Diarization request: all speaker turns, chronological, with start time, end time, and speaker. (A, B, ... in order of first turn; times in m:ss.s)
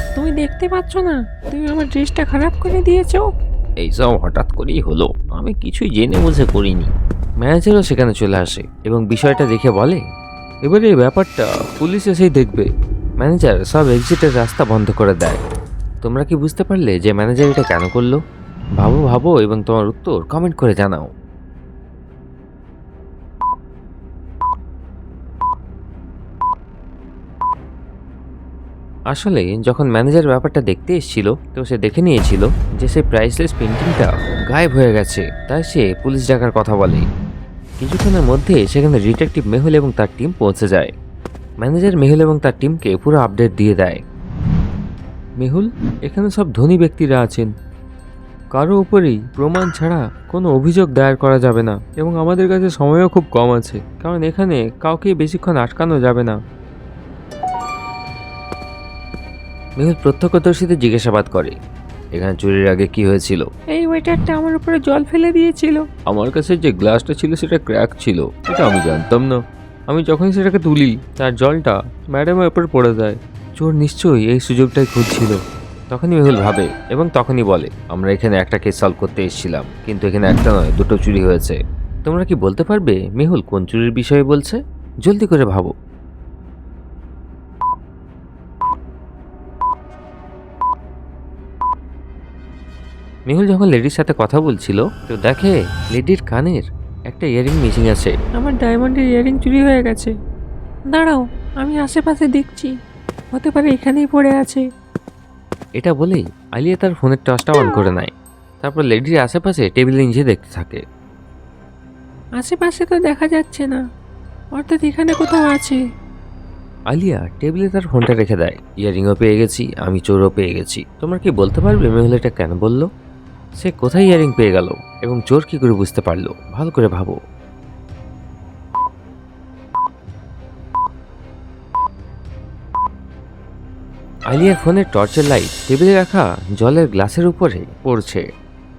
0:00.2-0:03.3 A
0:03.8-0:06.9 B
0:07.4-0:10.0 B
0:10.6-0:12.7 B
0:13.2-0:15.4 B
0:16.0-0:18.2 B
0:18.8-0:21.1 B
0:29.1-0:37.0 B
0:37.8-0:40.9 B
0:41.6-0:44.0 B
0:45.4-0:47.5 B
0:48.5-0:56.4 B
0:59.8-1:01.5 B
1:02.2-1:03.5 B
1:03.7-1:05.8 A
1:06.1-1:25.7 B
1:33.3-1:38.2 B
1:38.3-1:40.1 A
1:40.9-1:42.7 A
1:43.3-1:44.6 A
1:45.8-1:50.8 B
1:52.4-1:53.8 A
1:54.6-1:55.8 A
1:56.9-2:02.9 B
2:03.6-2:07.2 B
2:14.3-2:18.2 B